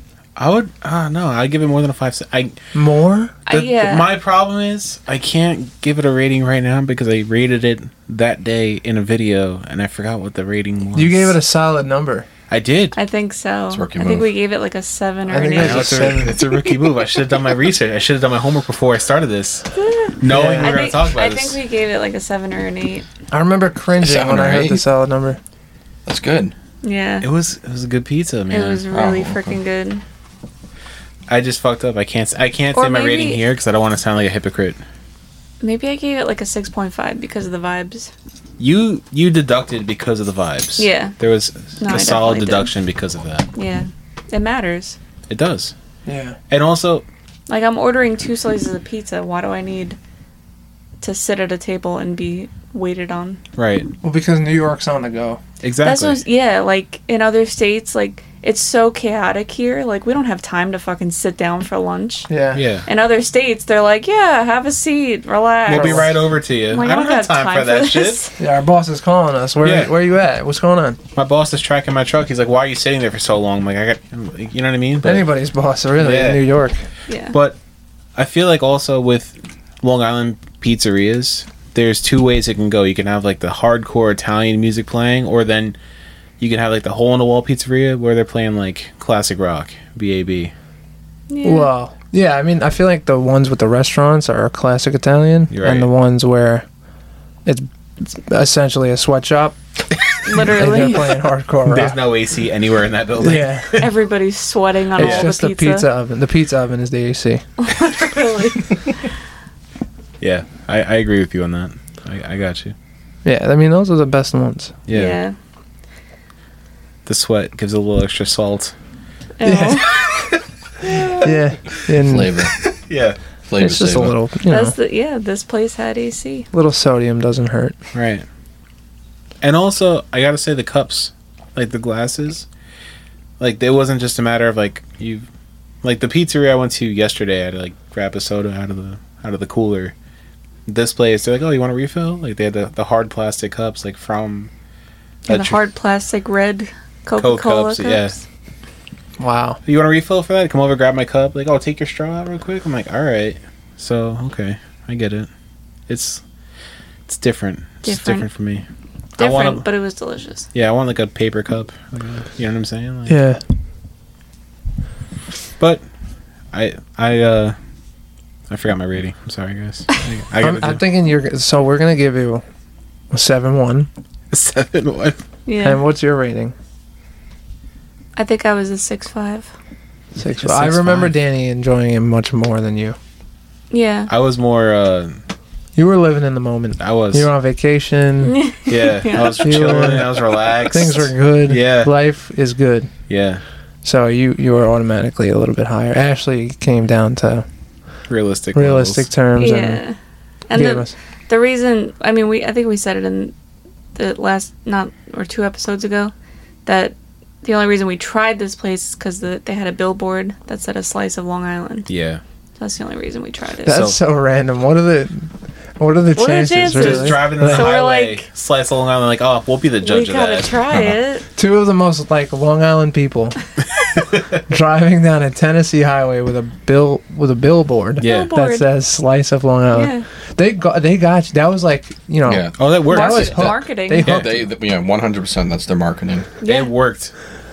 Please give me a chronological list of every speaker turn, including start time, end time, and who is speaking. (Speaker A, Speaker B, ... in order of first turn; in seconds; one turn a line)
Speaker A: 0.3-2.6
Speaker B: 2.7-3.4
Speaker C: 3.5-4.1
Speaker A: 3.5-11.3
Speaker B: 10.9-12.3
Speaker A: 12.5-13.0
Speaker C: 12.9-16.2
Speaker D: 13.7-14.3
Speaker B: 15.3-16.3
Speaker A: 15.6-19.7
Speaker C: 19.7-23.1
Speaker A: 20.2-21.6
Speaker B: 20.3-20.9
Speaker B: 23.3-25.4
Speaker D: 24.0-24.8
Speaker D: 26.1-26.5
Speaker C: 26.8-27.2
Speaker A: 27.2-28.8
Speaker C: 28.5-30.0
Speaker D: 28.9-29.6
Speaker A: 31.3-34.8
Speaker C: 32.8-33.4
Speaker C: 35.6-38.1
Speaker A: 38.6-43.5
Speaker C: 40.8-41.1
Speaker C: 41.8-42.7
Speaker C: 43.5-45.0
Speaker A: 45.3-45.7
Speaker B: 46.0-46.4
Speaker A: 46.5-47.0
Speaker C: 47.5-50.0
Speaker C: 51.0-53.4
Speaker A: 53.5-53.9
Speaker B: 54.0-55.4
Speaker A: 55.6-56.2
Speaker C: 55.8-62.3
Speaker B: 62.3-62.6
Speaker A: 62.5-62.9
Speaker C: 62.9-66.1
Speaker A: 65.7-68.2
Speaker B: 65.7-66.1
Speaker C: 66.7-68.3
Speaker B: 68.4-71.0
Speaker A: 69.6-69.9
Speaker A: 71.1-75.3
Speaker B: 75.0-76.8
Speaker A: 76.0-76.4
Speaker C: 77.1-77.3
Speaker A: 77.3-77.6
Speaker A: 78.2-85.8
Speaker A: 86.4-90.5
Speaker C: 91.3-91.7
Speaker B: 91.4-96.7
Speaker A: 95.5-95.9
Speaker B: 97.5-99.5
Speaker C: 100.2-101.2
Speaker B: 100.4-102.0
Speaker A: 101.7-103.9
Speaker B: 103.2-103.8
Speaker C: 103.8-105.8
Speaker B: 104.9-107.4
Speaker A: 105.0-105.3
Speaker C: 107.6-108.9
Speaker A: 110.2-112.7
Speaker B: 113.2-114.8
Speaker A: 114.9-115.2
Speaker C: 114.9-115.3
Speaker A: 117.0-118.7
Speaker C: 119.4-120.0
Speaker B: 119.4-120.0
Speaker C: 120.8-121.3
Speaker B: 121.0-122.4
Speaker D: 122.0-122.5
Speaker A: 122.7-123.2
Speaker D: 123.5-124.1
Speaker B: 123.6-124.7
Speaker C: 124.5-126.5
Speaker B: 126.5-127.8
Speaker A: 127.9-128.2
Speaker A: 129.4-132.4
Speaker A: 133.4-135.3
Speaker A: 135.8-139.9
Speaker A: 140.7-144.5
Speaker A: 145.3-145.6
Speaker C: 145.3-148.1
Speaker A: 147.2-148.1
Speaker B: 149.2-149.6
Speaker A: 149.6-155.3
Speaker A: 155.9-156.2
Speaker A: 157.1-158.6
Speaker C: 157.8-158.2
Speaker A: 159.2-159.6
Speaker C: 159.2-160.5
Speaker A: 160.5-163.2
Speaker B: 163.1-163.4
Speaker A: 165.6-165.8
Speaker A: 166.5-167.6
Speaker A: 168.5-170.8
Speaker B: 170.4-172.4
Speaker B: 173.1-173.9
Speaker A: 174.3-175.2
Speaker C: 175.4-175.8
Speaker B: 175.6-176.5
Speaker C: 178.2-179.5
Speaker B: 180.2-182.9
Speaker A: 180.3-181.1
Speaker C: 183.7-184.1
Speaker A: 184.1-185.2
Speaker B: 185.8-188.4
Speaker A: 186.8-187.3
Speaker C: 188.2-189.9
Speaker A: 188.7-191.9
Speaker B: 189.4-192.9
Speaker A: 193.1-193.4
Speaker B: 193.8-197.4
Speaker A: 198.1-199.1
Speaker B: 198.5-199.8
Speaker C: 199.4-199.9
Speaker C: 200.5-203.3
Speaker B: 200.5-200.9
Speaker C: 203.9-206.1
Speaker C: 206.7-211.9
Speaker A: 211.9-212.2
Speaker C: 212.6-213.8
Speaker B: 213.6-217.7
Speaker A: 213.7-213.9
Speaker C: 216.2-218.2
Speaker A: 216.7-220.9
Speaker C: 219.8-221.2
Speaker B: 221.3-223.4
Speaker A: 223.9-224.4
Speaker B: 224.5-234.4
Speaker A: 228.0-228.3
Speaker C: 228.0-228.7
Speaker C: 229.7-230.1
Speaker D: 232.2-232.6
Speaker A: 232.6-233.4
Speaker C: 232.9-234.0
Speaker D: 233.4-236.3
Speaker C: 236.4-236.7
Speaker A: 236.4-237.1